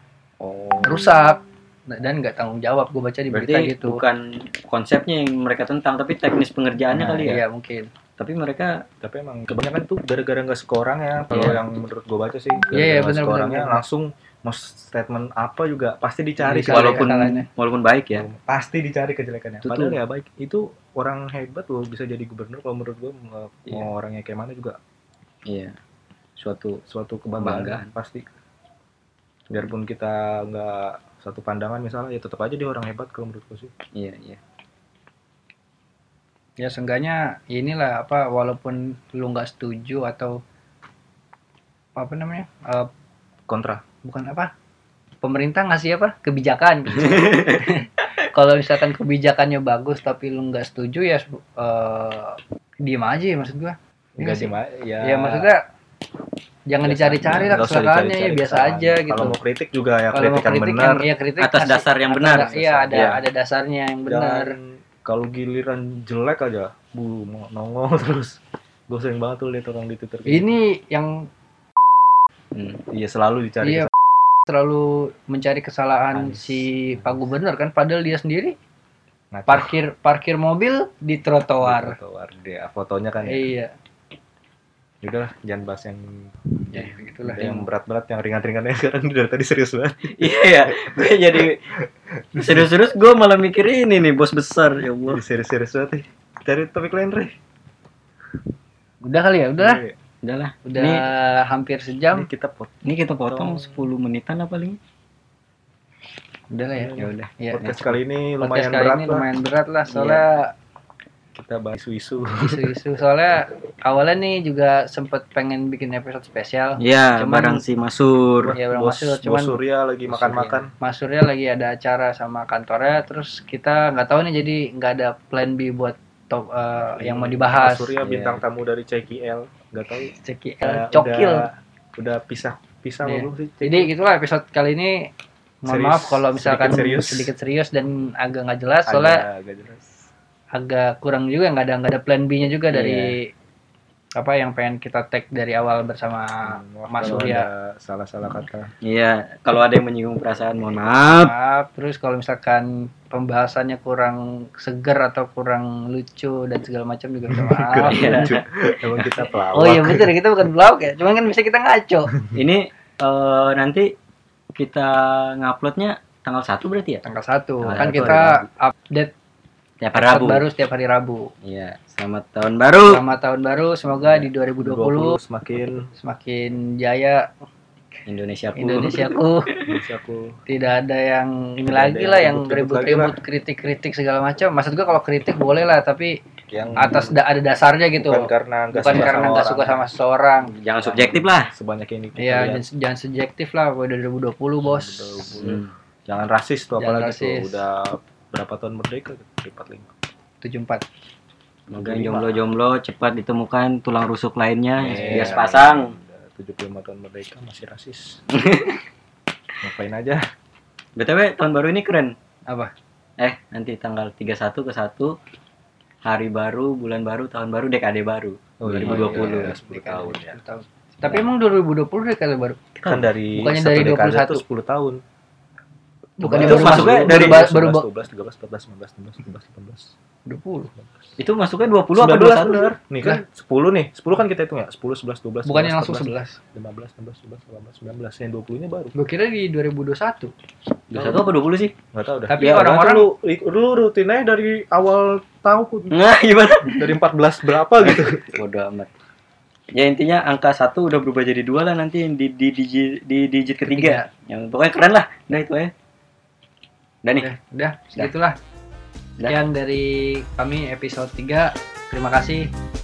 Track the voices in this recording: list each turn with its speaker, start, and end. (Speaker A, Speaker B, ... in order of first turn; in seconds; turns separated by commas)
Speaker A: 0.4-1.1, Speaker B: 0.8-4.0, Speaker A: 3.3-7.4, Speaker C: 7.0-7.3, Speaker B: 7.1-7.9, Speaker A: 8.2-8.8, Speaker C: 9.0-17.1, Speaker B: 11.3-11.6, Speaker A: 11.3-11.6, Speaker B: 12.7-13.8, Speaker B: 16.4-17.5, Speaker A: 16.7-18.2, Speaker C: 18.1-24.8, Speaker A: 19.6-19.9, Speaker A: 25.5-25.8, Speaker A: 26.4-26.8, Speaker C: 26.9-28.3, Speaker A: 27.4-27.9, Speaker C: 29.5-33.7, Speaker A: 33.9-34.4, Speaker B: 36.6-40.4, Speaker B: 42.0-42.9, Speaker C: 43.5-43.8, Speaker B: 44.0-44.5, Speaker B: 45.2-55.6, Speaker A: 47.0-47.3, Speaker C: 54.2-55.5, Speaker B: 56.7-59.3, Speaker C: 56.8-61.1, Speaker B: 60.1-64.5, Speaker A: 61.4-63.2, Speaker C: 62.5-63.2, Speaker C: 64.1-68.4, Speaker C: 68.9-70.5, Speaker B: 70.3-71.3, Speaker A: 72.5-72.8, Speaker C: 72.9-73.9, Speaker B: 73.6-73.9, Speaker B: 74.5-78.5, Speaker C: 76.1-77.1, Speaker C: 79.3-79.7, Speaker B: 79.5-82.0, Speaker C: 81.6-83.5, Speaker B: 83.2-83.7, Speaker C: 85.0-86.3, Speaker B: 86.7-87.6, Speaker C: 87.2-91.6, Speaker A: 90.1-91.6, Speaker C: 92.2-92.7, Speaker A: 92.3-95.2, Speaker C: 95.1-97.3, Speaker B: 99.0-99.8, Speaker C: 99.6-100.0, Speaker A: 100.2-101.0, Speaker B: 100.7-102.3, Speaker C: 102.1-102.7, Speaker A: 102.8-104.8, Speaker C: 103.3-103.8, Speaker B: 106.5-107.7, Speaker C: 106.8-109.2, Speaker A: 106.9-107.9, Speaker B: 108.4-110.5, Speaker A: 109.9-110.2, Speaker C: 111.3-112.7, Speaker B: 112.4-117.6, Speaker A: 116.8-118.6, Speaker C: 118.4-120.7, Speaker B: 118.5-119.6, Speaker A: 120.1-120.7, Speaker B: 120.8-128.0, Speaker C: 127.0-133.9, Speaker A: 128.0-128.4, Speaker B: 130.0-131.5, Speaker B: 133.0-135.1, Speaker B: 135.6-139.2, Speaker C: 135.7-137.3, Speaker C: 138.9-139.9, Speaker B: 140.5-143.3, Speaker A: 142.7-143.2, Speaker B: 144.2-147.5, Speaker C: 146.4-148.7, Speaker A: 147.0-147.3, Speaker A: 148.8-151.3, Speaker B: 151.2-158.3, Speaker C: 157.3-160.2, Speaker A: 157.9-159.3, Speaker B: 159.5-162.1, Speaker A: 162.3-163.9, Speaker A: 164.6-167.0, Speaker B: 167.0-169.1, Speaker A: 167.7-168.5, Speaker C: 167.8-168.1, Speaker A: 169.8-170.4, Speaker B: 169.9-171.3, Speaker A: 171.4-173.0, Speaker B: 172.8-175.2, Speaker C: 174.6-175.9, Speaker B: 176.0-177.3, Speaker A: 178.1-179.8, Speaker B: 178.6-179.5, Speaker C: 179.7-180.4, Speaker B: 180.5-186.2, Speaker C: 181.7-183.2, Speaker C: 186.5-187.1, Speaker B: 186.8-190.5, Speaker C: 188.0-189.8, Speaker A: 188.9-189.2, Speaker A: 190.5-191.5, Speaker C: 190.8-192.6, Speaker B: 192.2-195.4, Speaker C: 194.6-199.9, Speaker A: 195.4-195.7, Speaker B: 196.8-197.6, Speaker B: 200.4-200.8, Speaker A: 201.7-205.9, Speaker C: 201.8-202.4, Speaker C: 204.8-208.2, Speaker B: 204.9-205.4, Speaker A: 208.3-208.8, Speaker C: 209.6-210.2, Speaker A: 211.0-212.2, Speaker A: 213.2-215.1, Speaker A: 216.0-219.5, Speaker C: 218.6-220.4, Speaker B: 218.8-222.6, Speaker A: 222.8-223.1, Speaker C: 222.8-225.0, Speaker B: 223.3-224.4, Speaker B: 226.2-227.8, Speaker C: 226.2-229.9, Speaker A: 226.3-227.4, Speaker B: 230.3-230.7, Speaker C: 230.8-231.1, Speaker A: 231.2-232.7, Speaker C: 231.9-238.9, Speaker B: 235.4-236.4, Speaker B: 238.9-240.3, Speaker A: 240.9-241.7, Speaker C: 241.9-246.0, Speaker B: 242.3-243.1, Speaker A: 245.9-247.0, Speaker C: 246.7-248.4, Speaker A: 247.8-248.9, Speaker A: 249.7-255.7, Speaker B: 253.6-254.1, Speaker B: 257.2-258.4, Speaker B: 259.3-262.5